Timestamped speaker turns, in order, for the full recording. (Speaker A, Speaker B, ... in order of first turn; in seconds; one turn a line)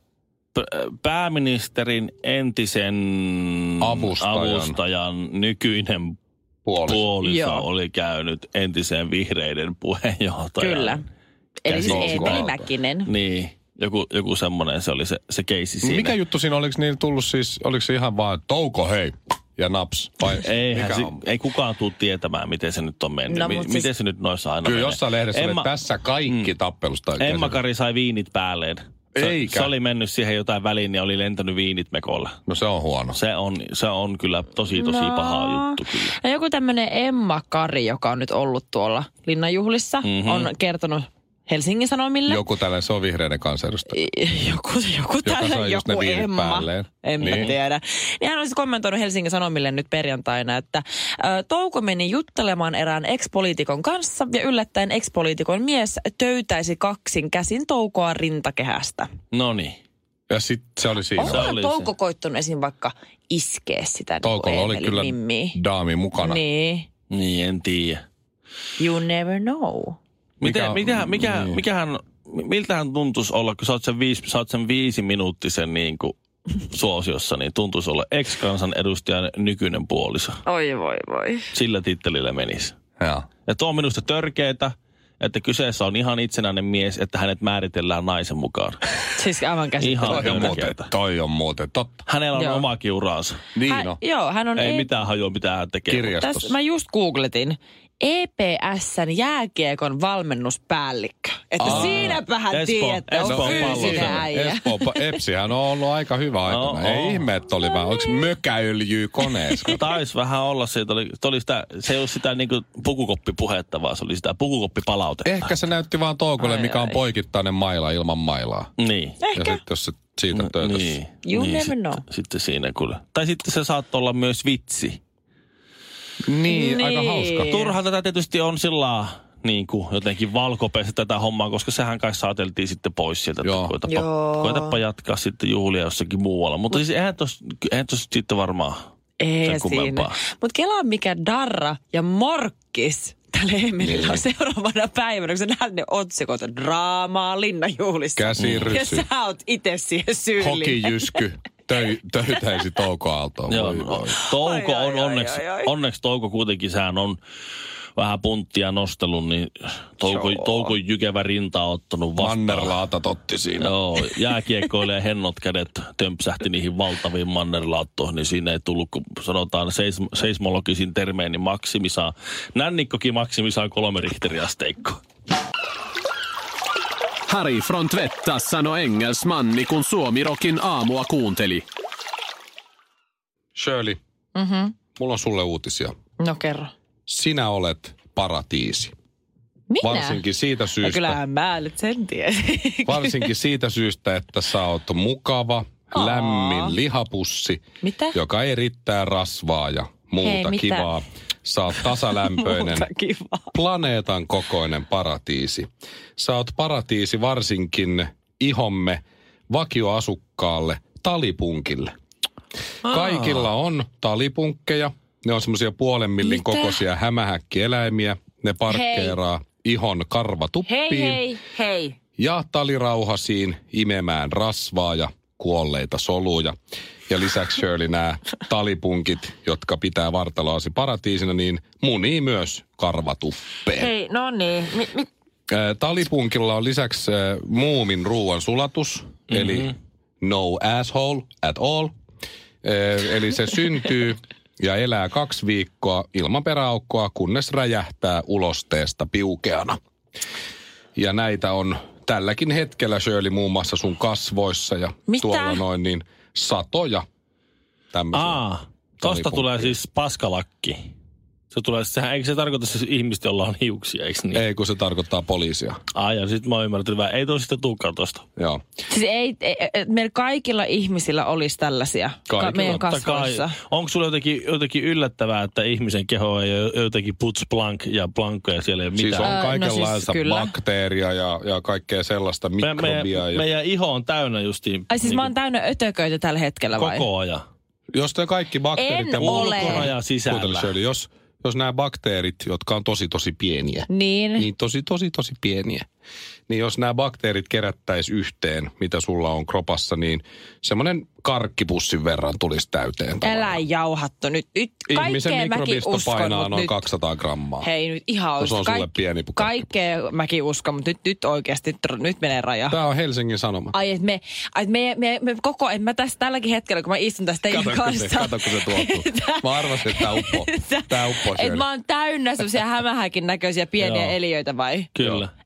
Speaker A: 0.6-6.2
Speaker B: 3.8-4.8
Speaker B: 6.7-7.0
Speaker A: 6.9-11.0
Speaker C: 7.2-7.7
Speaker C: 10.6-11.1
Speaker C: 11.6-13.1
Speaker A: 11.7-16.2
Speaker B: 11.7-12.7
Speaker B: 15.8-21.2
Speaker A: 20.4-25.7
Speaker C: 23.3-23.9
Speaker B: 24.6-27.6
Speaker A: 27.2-32.4
Speaker B: 29.1-29.7
Speaker B: 32.5-33.2
Speaker A: 33.1-36.2
Speaker C: 34.8-42.4
Speaker A: 40.0-40.5
Speaker B: 42.3-44.0
Speaker C: 43.9-59.1
Speaker B: 45.2-47.5
Speaker A: 47.2-47.6
Speaker A: 59.3-59.8
Speaker B: 60.3-61.5
Speaker C: 61.2-65.6
Speaker A: 61.2-61.9
Speaker B: 64.2-66.4
Speaker C: 66.2-66.9
Speaker A: 67.1-68.0
Speaker C: 68.8-70.0
Speaker A: 70.4-76.2
Speaker B: 70.4-71.6
Speaker A: 76.7-80.4
Speaker C: 80.5-81.5
Speaker A: 81.5-82.8
Speaker B: 83.0-83.3
Speaker A: 83.5-89.0
Speaker C: 89.2-90.6
Speaker A: 89.8-90.9
Speaker B: 90.1-92.0
Speaker A: 92.1-93.4
Speaker C: 92.3-92.7
Speaker B: 93.5-94.0
Speaker C: 93.7-94.9
Speaker A: 94.5-96.3
Speaker B: 95.9-96.5
Speaker C: 96.2-105.2
Speaker B: 101.6-102.2
Speaker A: 101.6-104.2
Speaker B: 103.2-109.8
Speaker A: 106.5-107.3
Speaker C: 107.6-108.3
Speaker C: 109.5-109.8
Speaker A: 109.7-115.6
Speaker B: 115.2-118.7
Speaker C: 116.4-117.0
Speaker A: 118.8-119.2
Speaker C: 119.2-119.6
Speaker B: 119.3-121.0
Speaker A: 120.3-125.0
Speaker C: 121.2-122.0
Speaker B: 126.3-127.5
Speaker C: 126.5-127.8
Speaker A: 127.5-138.8
Speaker B: 133.4-133.7
Speaker C: 133.8-134.8
Speaker C: 139.2-151.2
Speaker A: 139.4-140.2
Speaker B: 143.8-144.2
Speaker B: 148.2-149.1
Speaker A: 148.4-148.8
Speaker B: 150.4-154.2
Speaker A: 153.5-157.2
Speaker C: 154.2-155.7
Speaker A: 158.0-162.8
Speaker C: 160.0-160.7
Speaker B: 162.2-163.7
Speaker A: 163.6-175.0
Speaker D: 177.3-181.7
Speaker B: 183.6-184.0
Speaker C: 184.3-184.8
Speaker B: 185.0-185.9
Speaker C: 186.2-186.7
Speaker B: 187.1-188.9
Speaker C: 189.7-190.2
Speaker B: 189.8-191.2
Speaker C: 190.8-193.3
Speaker B: 192.9-197.6
Speaker C: 195.9-196.8
Speaker C: 197.8-198.2
Speaker B: 198.1-202.9
Speaker C: 200.2-200.9
Speaker C: 201.8-203.6
Speaker B: 203.5-211.9
Speaker A: 212.8-213.5
Speaker B: 212.8-221.3
Speaker C: 216.2-216.8
Speaker C: 218.7-219.2
Speaker C: 220.7-222.0
Speaker B: 222.2-226.6
Speaker B: 227.1-233.9
Speaker C: 233.8-235.1
Speaker B: 235.5-241.9
Speaker A: 239.3-239.7
Speaker B: 242.6-249.8
Speaker B: 251.0-257.1
Speaker C: 255.1-255.6
Speaker B: 257.9-258.4
Speaker A: 258.1-260.9
Speaker B: 259.0-259.8
Speaker A: 261.5-264.4
Speaker B: 264.3-265.8
Speaker A: 265.9-268.2
Speaker C: 268.9-273.5
Speaker B: 272.3-272.9
Speaker A: 272.6-279.4
Speaker B: 278.9-283.4
Speaker C: 279.2-280.6
Speaker A: 282.6-285.3
Speaker C: 284.9-287.1
Speaker A: 286.8-287.4
Speaker B: 287.9-295.9
Speaker C: 288.8-289.9
Speaker A: 289.2-290.7
Speaker C: 293.9-294.5
Speaker B: 296.5-303.6
Speaker C: 303.2-306.9
Speaker B: 304.9-307.7
Speaker C: 307.6-312.8
Speaker B: 308.4-309.6
Speaker B: 312.7-313.8
Speaker C: 313.7-324.9
Speaker B: 317.5-321.7
Speaker A: 323.8-324.2
Speaker A: 324.9-325.3